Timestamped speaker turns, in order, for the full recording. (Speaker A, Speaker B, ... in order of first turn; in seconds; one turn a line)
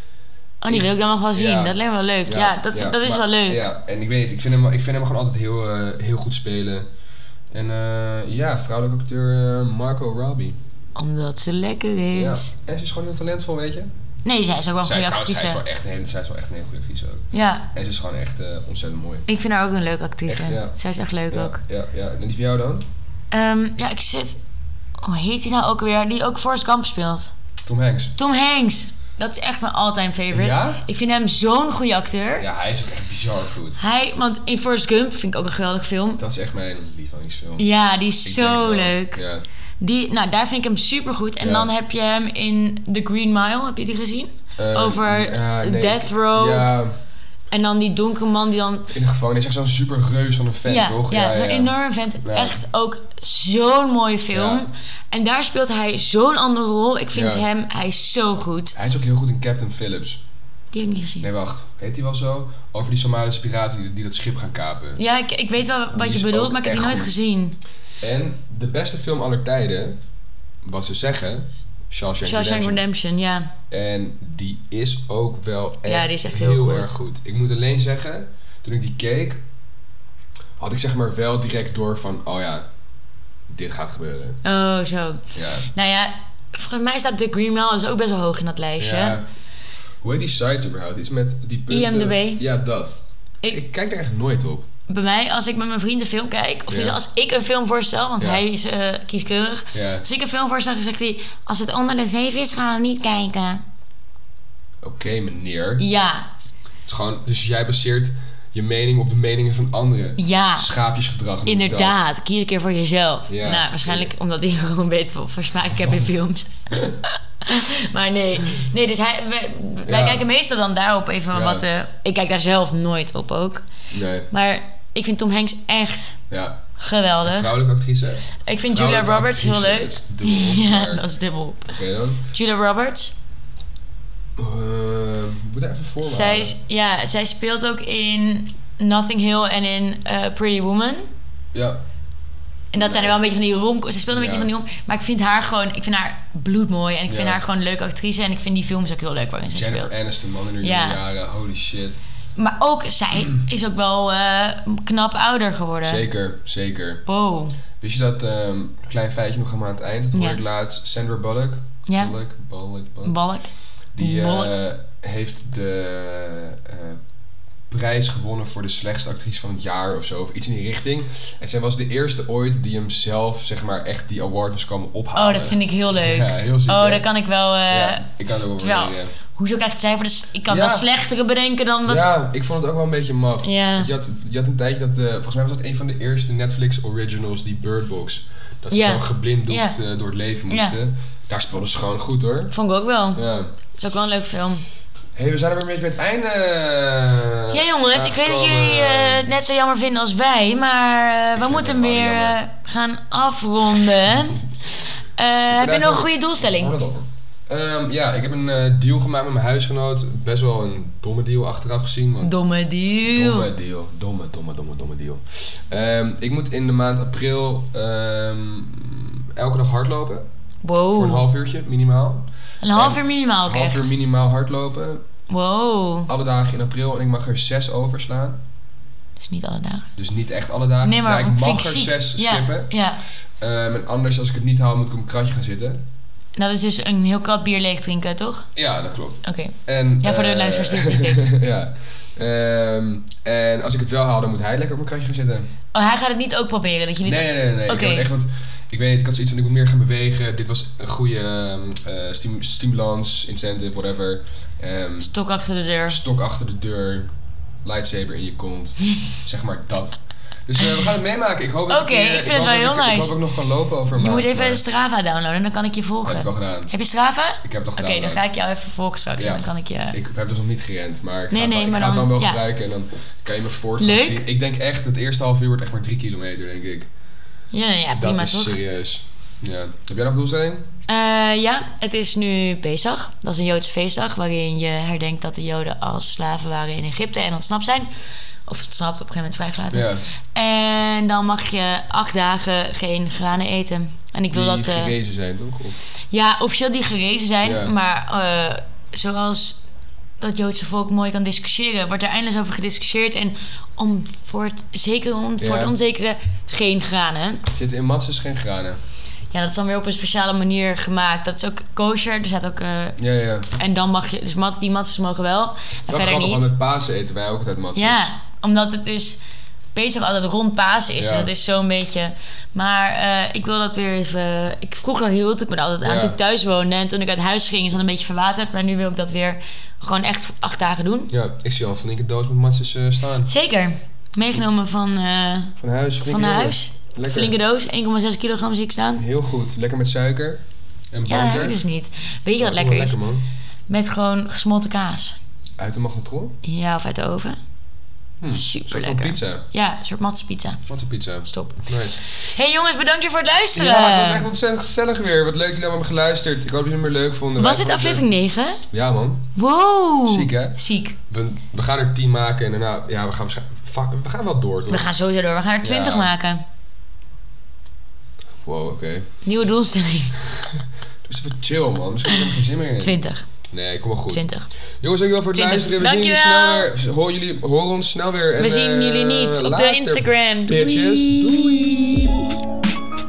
Speaker A: 0.6-3.6
Speaker B: 0.7-6.9
Speaker B: 7.5-10.6
Speaker A: 10.9-12.5
Speaker B: 12.1-13.9
Speaker A: 14.2-15.6
Speaker B: 14.8-19.3
Speaker A: 17.3-17.7
Speaker A: 19.3-21.6
Speaker B: 20.3-20.8
Speaker B: 21.3-22.9
Speaker A: 23.3-24.4
Speaker A: 25.0-27.3
Speaker B: 27.6-28.1
Speaker A: 28.2-32.5
Speaker B: 30.3-30.8
Speaker B: 32.4-33.8
Speaker A: 33.8-36.2
Speaker B: 36.2-37.7
Speaker A: 37.6-39.2
Speaker B: 38.2-39.4
Speaker A: 39.8-46.7
Speaker B: 41.4-41.7
Speaker B: 44.6-47.0
Speaker A: 47.5-48.9
Speaker B: 48.9-52.6
Speaker A: 50.7-58.8
Speaker B: 54.3-54.7
Speaker B: 57.1-57.5
Speaker B: 58.7-60.2
Speaker A: 60.7-61.3
Speaker B: 61.2-65.0
Speaker A: 65.0-67.6
Speaker B: 65.9-67.1
Speaker B: 68.0-70.0
Speaker B: 70.6-72.8
Speaker A: 72.2-73.5
Speaker B: 73.7-79.4
Speaker A: 75.8-77.0
Speaker B: 80.6-82.7
Speaker B: 83.5-84.4
Speaker A: 84.4-89.2
Speaker B: 85.3-85.7
Speaker B: 88.8-89.3
Speaker B: 90.0-94.7
Speaker A: 91.7-92.5
Speaker A: 94.9-103.6
Speaker B: 96.7-97.0
Speaker B: 98.2-98.4
Speaker B: 99.7-100.1
Speaker B: 104.8-105.9
Speaker A: 105.8-106.3
Speaker B: 106.9-112.0
Speaker A: 110.2-110.7
Speaker A: 111.5-116.5
Speaker B: 113.3-114.1
Speaker B: 116.7-117.0
Speaker A: 117.1-123.7
Speaker B: 119.8-120.2
Speaker B: 121.3-121.7
Speaker B: 123.9-124.3
Speaker A: 124.3-126.2
Speaker B: 126.3-126.6
Speaker A: 126.8-127.6
Speaker B: 127.2-131.0
Speaker A: 128.4-131.8
Speaker B: 131.7-132.3
Speaker A: 132.3-133.1
Speaker B: 134.4-136.6
Speaker A: 136.0-141.1
Speaker B: 141.5-141.8
Speaker A: 142.7-150.0
Speaker B: 142.8-143.2
Speaker B: 144.1-144.5
Speaker B: 147.1-147.4
Speaker B: 149.5-152.0
Speaker A: 150.6-151.0
Speaker A: 152.4-156.0
Speaker B: 155.8-157.0
Speaker A: 157.1-157.6
Speaker B: 157.8-163.2
Speaker A: 160.1-160.4
Speaker A: 161.9-162.1
Speaker A: 163.1-164.5
Speaker B: 163.9-167.0
Speaker B: 167.7-177.1
Speaker A: 175.2-178.1
Speaker B: 177.7-179.2
Speaker A: 178.6-182.1
Speaker B: 180.5-180.9
Speaker B: 181.9-192.5
Speaker A: 183.4-183.9
Speaker A: 188.7-189.8
Speaker A: 190.5-190.8
Speaker A: 192.5-193.2
Speaker B: 193.2-193.5
Speaker A: 193.7-194.6
Speaker B: 195.2-199.3
Speaker A: 197.5-206.8
Speaker B: 201.4-202.4
Speaker B: 205.5-212.4
Speaker A: 212.2-213.5
Speaker B: 213.0-220.3
Speaker A: 220.6-221.3
Speaker B: 220.9-225.1
Speaker A: 222.6-223.9
Speaker A: 225.3-226.1
Speaker B: 226.1-228.4
Speaker A: 229.2-229.9
Speaker B: 230.0-232.7
Speaker A: 230.8-233.0
Speaker B: 233.4-235.8
Speaker A: 236.4-238.5
Speaker B: 238.6-245.5
Speaker A: 239.2-241.3
Speaker A: 245.7-248.1
Speaker B: 247.1-255.1
Speaker A: 255.0-256.0
Speaker B: 255.9-257.1
Speaker B: 257.6-264.6
Speaker A: 261.7-263.2
Speaker A: 263.9-270.0
Speaker B: 266.1-266.7
Speaker B: 267.4-268.2
Speaker B: 269.2-276.9
Speaker A: 271.3-272.4
Speaker A: 273.8-274.2
Speaker A: 277.5-278.6
Speaker B: 277.9-280.7
Speaker A: 280.9-287.9
Speaker A: 288.5-294.9
Speaker B: 289.7-290.1
Speaker B: 294.3-295.9
Speaker A: 296.0-299.6
Speaker B: 297.4-297.7
Speaker A: 300.2-307.5
Speaker B: 305.4-305.7
Speaker B: 307.5-308.8
Speaker A: 309.3-313.0
Speaker B: 313.0-313.5
Speaker A: 313.6-316.5
Speaker B: 315.9-318.1
Speaker A: 317.8-319.2
Speaker A: 319.7-331.1
Speaker B: 321.0-321.3
Speaker B: 325.8-326.1
Speaker B: 331.1-333.3
Speaker A: 333.3-339.0
Speaker B: 335.6-337.3
Speaker B: 339.0-340.4
Speaker B: 340.9-341.6
Speaker A: 341.1-343.0
Speaker B: 342.4-343.2
Speaker A: 343.7-345.2
Speaker B: 345.6-346.4
Speaker A: 346.4-347.4
Speaker B: 348.2-349.4
Speaker A: 348.3-350.6
Speaker B: 350.7-352.0
Speaker A: 351.3-354.3
Speaker B: 353.6-358.1
Speaker A: 357.4-358.6
Speaker B: 358.7-359.3
Speaker A: 359.4-361.0
Speaker B: 360.1-364.9
Speaker A: 364.7-366.4
Speaker B: 365.6-366.1
Speaker B: 368.4-369.1
Speaker A: 369.2-370.1
Speaker B: 370.2-374.3
Speaker A: 372.2-373.3
Speaker A: 374.1-374.5
Speaker B: 374.8-382.3
Speaker A: 375.3-376.7
Speaker A: 378.4-382.1